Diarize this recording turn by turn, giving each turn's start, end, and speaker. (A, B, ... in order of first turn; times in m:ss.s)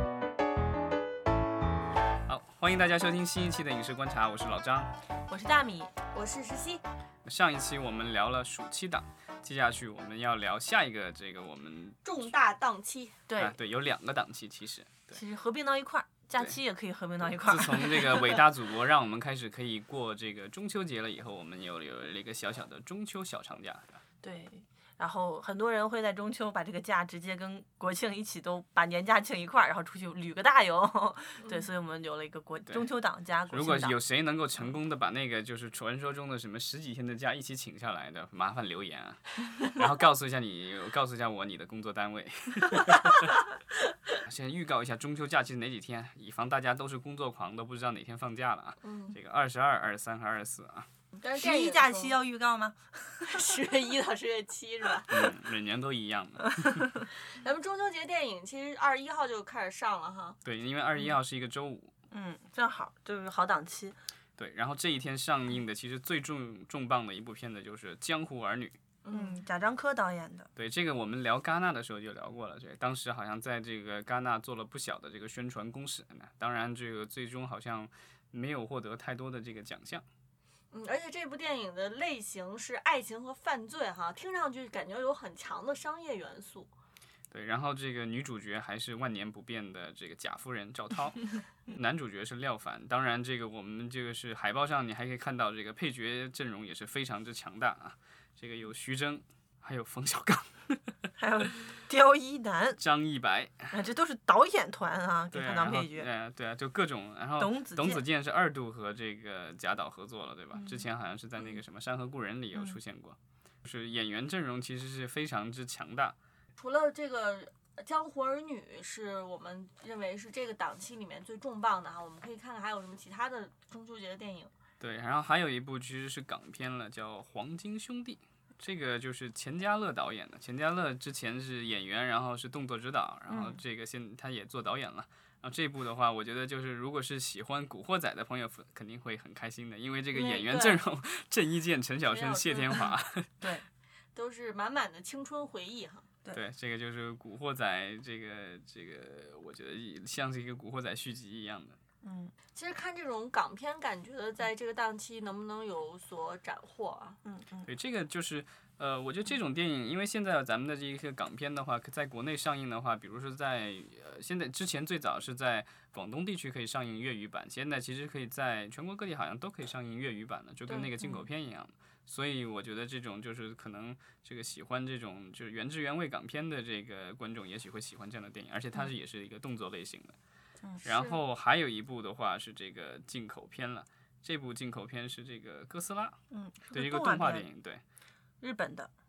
0:02.3-0:04.9 A
0:05.3-0:05.9 B
0:06.1-0:06.8 C
0:07.2-0:12.3 A
0:12.0-0:13.2 C
0:13.3-0:13.6 B
0:13.4-0:15.2 A
0:15.1-0:18.4 B
0:17.3-0:24.0 A
0:24.2-0:34.0 B
0:31.4-0:31.7 C
0:33.5-0:43.4 A
0:44.2-0:50.9 A
0:48.8-0:49.2 C
0:51.2-0:52.2 C
0:51.4-0:53.6 B
0:53.3-0:55.3 C
0:55.1-0:56.8 A
0:56.4-0:57.0 B
0:57.1-1:00.4 C
1:00.4-1:01.9 A
1:02.1-1:04.0 B
1:04.4-1:08.8 A
1:09.0-1:09.4 C
1:09.1-1:10.5 B
1:10.6-1:20.0 A
1:20.7-1:26.7 C
1:27.3-1:40.8 A
1:41.2-1:42.8 B
1:42.8-1:43.7 A
1:43.7-1:46.1 B
1:45.3-1:56.2 A
1:47.4-1:48.0 B
1:50.6-1:50.8 B
1:56.6-2:04.5 C
2:04.8-2:23.4 A
2:13.3-2:13.6 B
2:20.1-2:20.8 C
2:22.0-2:22.9 C
2:24.2-2:26.1 C
2:26.3-2:31.8 A
2:32.0-2:32.3 B
2:32.5-2:37.2 C
2:37.2-2:37.7 B
2:37.7-3:00.1 A
2:51.0-2:51.3 B
3:00.8-3:06.2 A
3:00.9-3:01.2 C
3:06.3-3:07.5 B
3:06.7-3:07.8 A
3:08.4-3:08.9 B